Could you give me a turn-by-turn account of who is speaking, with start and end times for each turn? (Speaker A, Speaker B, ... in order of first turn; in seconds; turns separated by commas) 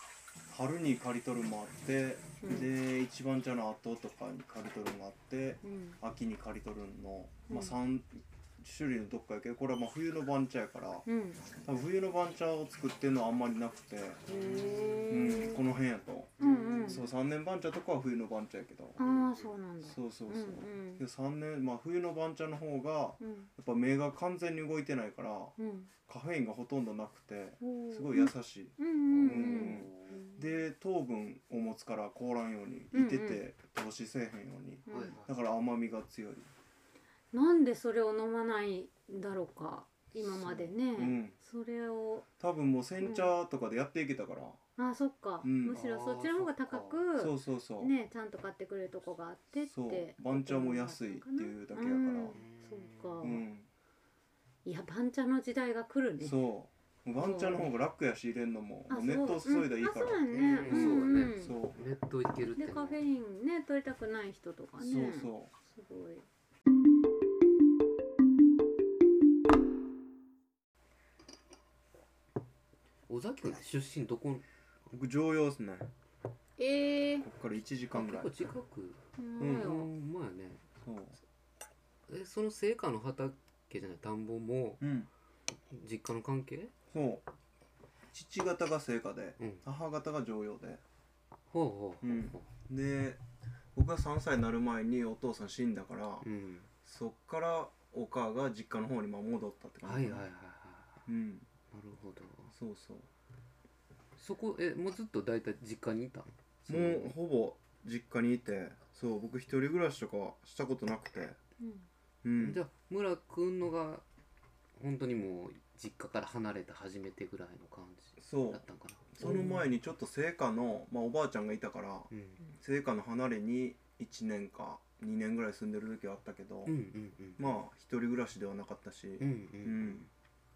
Speaker A: 0.5-11.1, Speaker B: 2.4-2.7, Speaker B: 5.6-6.0, Speaker B: 7.5-7.8, Speaker B: 11.1-11.4, Speaker A: 11.6-14.3, Speaker B: 14.3-15.6, Speaker C: 14.3-15.1, Speaker A: 15.1-19.0, Speaker B: 16.4-17.1, Speaker B: 19.0-21.0, Speaker C: 19.0-19.4, Speaker A: 19.8-36.5, Speaker B: 23.2-23.5, Speaker B: 25.6-25.9, Speaker B: 27.6-30.4, Speaker C: 29.1-30.3, Speaker B: 32.9-33.4, Speaker B: 34.9-35.2, Speaker C: 34.9-35.4, Speaker B: 37.3-42.3, Speaker A: 40.1-41.4, Speaker A: 42.4-44.6, Speaker B: 43.0-43.3, Speaker B: 44.8-53.4, Speaker A: 45.4-47.9, Speaker C: 45.7-46.5, Speaker A: 49.6-52.4, Speaker C: 52.3-53.3, Speaker A: 53.2-53.7, Speaker B: 54.6-56.4, Speaker A: 56.2-61.8, Speaker B: 57.2-57.7, Speaker B: 58.9-61.6, Speaker C: 60.3-63.0, Speaker B: 62.5-66.2, Speaker A: 64.8-65.5, Speaker C: 73.1-74.5, Speaker A: 74.9-75.9, Speaker B: 76.6-77.3, Speaker A: 77.2-78.3, Speaker C: 77.9-80.6, Speaker B: 79.2-79.9, Speaker A: 79.4-79.8, Speaker A: 80.8-81.2, Speaker C: 82.1-84.8, Speaker A: 84.8-85.1, Speaker C: 85.7-86.7, Speaker A: 86.9-87.2, Speaker A: 88.1-90.8, Speaker C: 89.4-89.6, Speaker C: 91.5-92.5, Speaker A: 92.0-93.2, Speaker A: 93.7-96.3, Speaker C: 96.2-96.7, Speaker A: 96.8-100.3, Speaker C: 99.8-101.0, Speaker A: 101.1-101.5, Speaker C: 101.7-102.5, Speaker A: 102.5-103.1, Speaker C: 104.2-107.2, Speaker A: 106.7-111.4, Speaker B: 111.6-111.9, Speaker A: 112.2-112.6, Speaker C: 112.4-114.0, Speaker C: 114.8-119.7, Speaker A: 118.2-126.8, Speaker B: 119.2-119.6, Speaker C: 122.1-122.4, Speaker C: 126.7-127.6, Speaker A: 127.4-130.1, Speaker C: 129.2-130.1